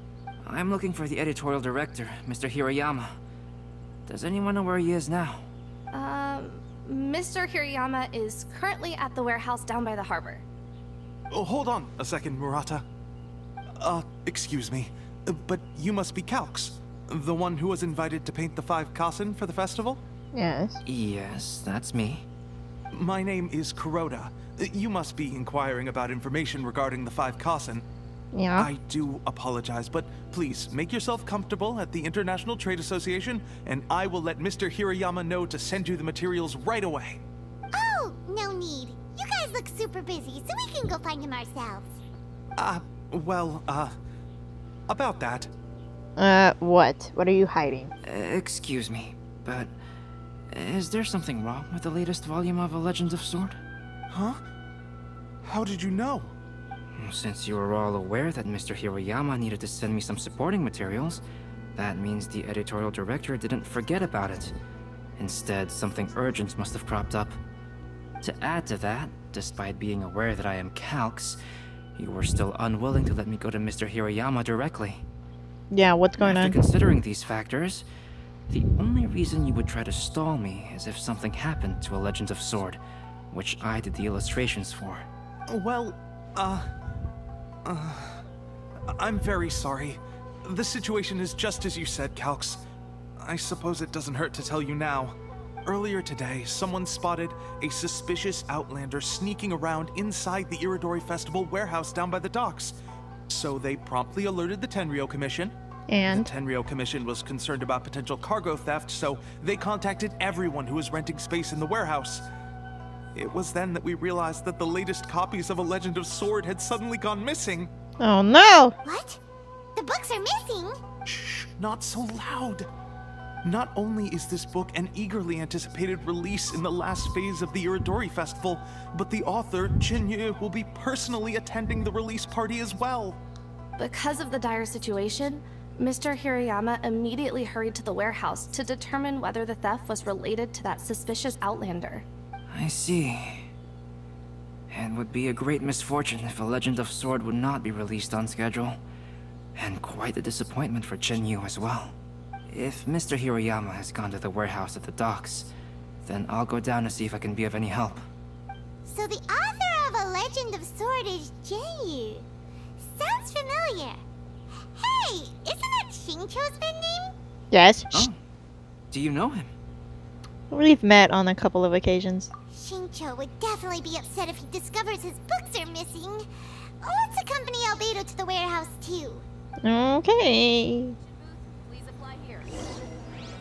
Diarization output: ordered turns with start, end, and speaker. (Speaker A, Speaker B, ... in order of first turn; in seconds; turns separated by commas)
Speaker A: 0.4-3.2, Speaker A: 4.1-5.5, Speaker B: 5.9-10.4, Speaker C: 11.3-12.8, Speaker C: 13.8-20.0, Speaker D: 20.3-20.8, Speaker A: 20.9-22.3, Speaker C: 22.9-27.8, Speaker D: 28.3-28.7, Speaker C: 28.6-37.2, Speaker E: 37.7-42.0, Speaker C: 42.6-43.9, Speaker C: 44.9-45.5, Speaker D: 46.2-47.9, Speaker A: 48.0-49.7, Speaker A: 50.5-53.6, Speaker C: 54.1-54.4, Speaker C: 55.4-56.3, Speaker A: 56.9-61.2, Speaker A: 61.8-64.5, Speaker A: 65.2-67.4, Speaker A: 68.2-71.4, Speaker A: 72.0-75.1, Speaker D: 75.7-76.7, Speaker A: 76.2-77.9, Speaker A: 78.5-82.8, Speaker A: 83.3-85.1, Speaker C: 85.5-86.7, Speaker C: 87.7-88.2, Speaker C: 89.0-92.6, Speaker C: 93.2-102.8, Speaker C: 103.3-105.5, Speaker D: 105.9-106.3, Speaker C: 106.1-112.2, Speaker C: 113.2-117.7, Speaker D: 118.0-118.7, Speaker E: 118.8-119.2, Speaker E: 119.8-120.8, Speaker C: 121.1-122.7, Speaker C: 123.4-133.2, Speaker B: 133.8-142.1, Speaker A: 142.5-143.5, Speaker A: 144.7-148.8, Speaker A: 149.6-152.0, Speaker A: 152.5-155.5, Speaker A: 156.1-158.1, Speaker E: 158.9-162.3, Speaker E: 162.8-164.0, Speaker E: 164.7-167.1, Speaker D: 167.5-168.1, Speaker A: 167.9-168.2, Speaker A: 168.9-169.5, Speaker D: 170.5-172.3, Speaker E: 172.5-176.3, Speaker E: 176.8-179.2, Speaker D: 179.6-181.0, Speaker B: 181.7-182.5